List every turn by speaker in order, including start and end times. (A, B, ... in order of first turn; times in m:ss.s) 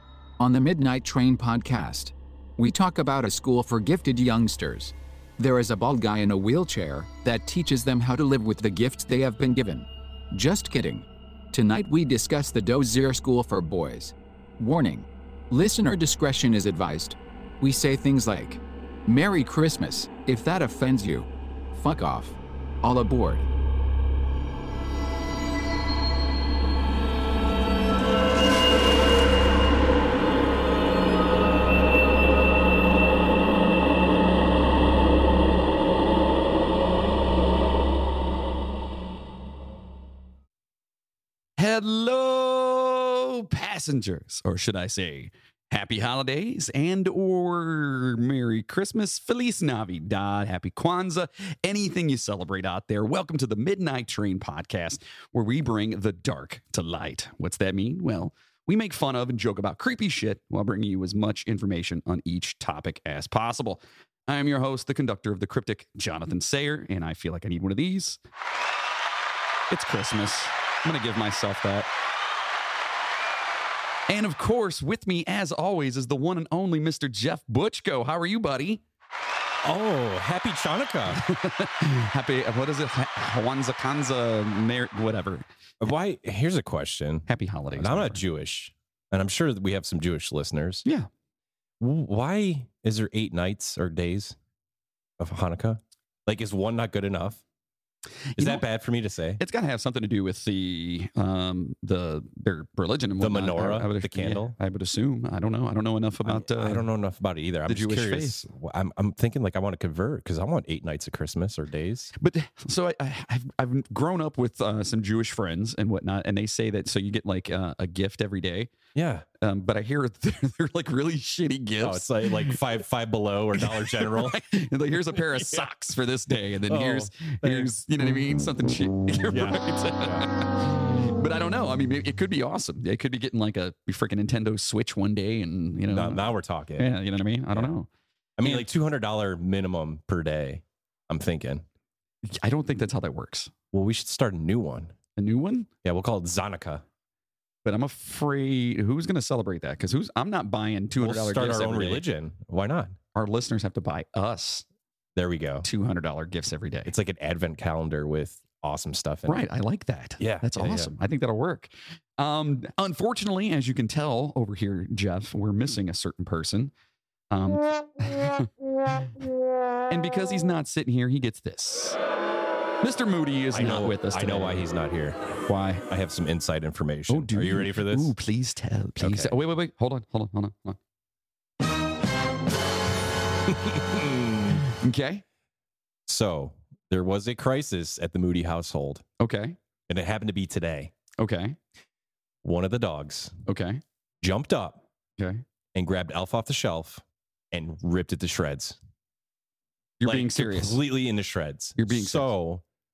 0:00.4-0:23.4 A
0:41.6-1:08.2 B
1:09.7-1:11.9 B
1:14.1-1:18.8 B
1:19.6-1:21.2 C
1:21.1-1:25.4 B
1:25.8-1:30.8 C
1:27.3-1:28.2 B
1:31.8-1:34.4 C
1:35.2-1:37.4 C
1:38.3-1:38.6 B
1:38.4-1:39.4 C
1:39.4-1:46.8 B
1:43.2-1:44.6 C
1:46.2-1:52.1 C
1:47.6-1:48.4 B
1:52.2-1:58.7 B
1:58.9-1:59.2 C
1:59.4-2:02.6 B
2:01.8-2:04.4 C
2:03.6-2:16.2 B
2:05.1-2:05.7 C
2:06.6-2:07.8 C
2:09.3-2:10.3 C
2:15.9-2:17.8 C
2:16.8-2:17.9 B
2:18.4-2:21.6 C
2:22.2-2:23.5 B
2:23.7-2:24.9 C
2:25.2-2:25.7 B
2:25.8-2:26.8 C
2:27.6-2:32.0 B
2:31.0-2:33.0 C
2:33.1-2:34.6 B
2:35.2-2:35.6 C
2:35.6-2:36.9 B
2:36.8-2:39.4 C
2:39.3-2:46.7 B
2:40.2-2:40.9 C
2:47.3-2:49.1 B
2:49.9-2:52.0 B
2:52.8-2:54.6 B
2:53.5-2:55.2 C
2:55.4-2:55.8 B
2:55.9-2:58.1 C
2:57.1-3:00.8 B
2:59.0-2:59.4 C
3:03.5-3:04.6 C
3:04.7-3:05.2 B
3:06.1-3:09.0 C
3:09.2-3:09.6 B
3:09.9-3:10.9 C
3:11.2-3:11.6 B
3:12.4-3:13.3 C
3:13.4-3:13.8 B
3:14.2-3:14.8 C
3:15.2-3:15.4 B
3:15.7-3:18.8 C
3:20.0-3:20.8 B
3:20.0-3:22.6 C
3:21.8-3:22.3 B